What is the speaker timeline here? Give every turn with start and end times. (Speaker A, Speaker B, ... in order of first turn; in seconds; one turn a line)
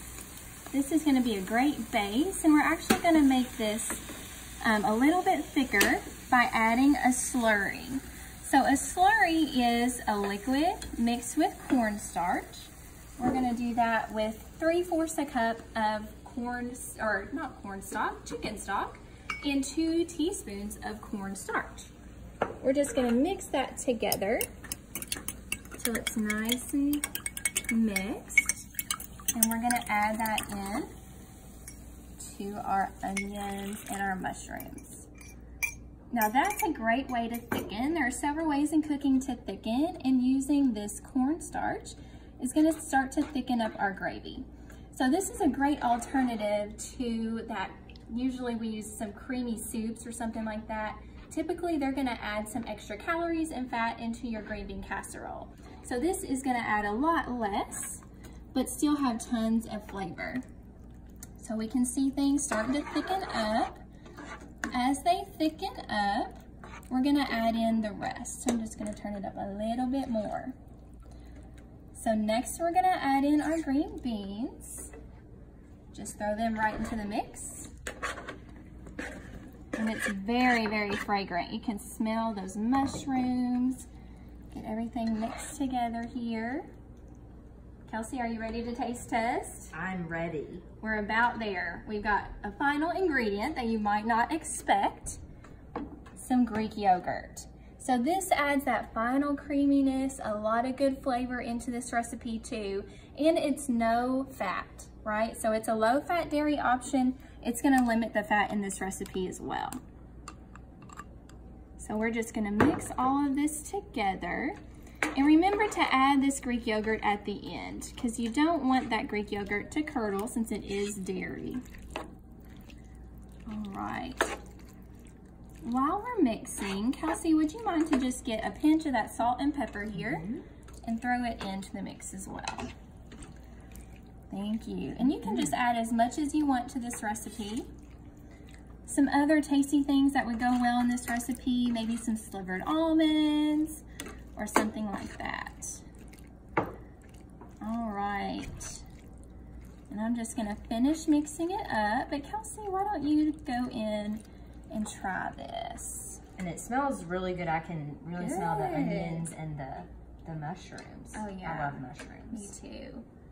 Speaker A: 0.7-4.0
Speaker A: 4.6-21.9
Speaker A: 22.6-24.4
Speaker A: 25.8-27.1
Speaker A: 27.7-28.7
Speaker A: 29.3-30.9
Speaker A: 32.2-35.1
Speaker A: 36.1-60.4
Speaker A: 61.4-63.8
Speaker A: 64.7-70.5
Speaker A: 71.9-74.9
Speaker A: 75.9-77.7
Speaker A: 79.7-83.9
Speaker A: 84.5-86.7
Speaker A: 87.9-89.7
Speaker B: 89.7-90.6
Speaker A: 90.8-95.2
Speaker A: 96.2-109.8
Speaker A: 111.8-114.6
Speaker A: 115.1-121.6
Speaker A: 123.5-124.4
Speaker A: 125.6-130.2
Speaker B: 129.9-130.4
Speaker A: 130.8-132.7
Speaker A: 134.3-137.7
Speaker B: 135.0-135.5
Speaker A: 138.9-143.8
Speaker A: 144.3-145.8
Speaker A: 147.6-148.8
Speaker A: 149.9-156.2
Speaker B: 156.4-162.5
Speaker A: 158.2-159.3
Speaker A: 161.1-163.0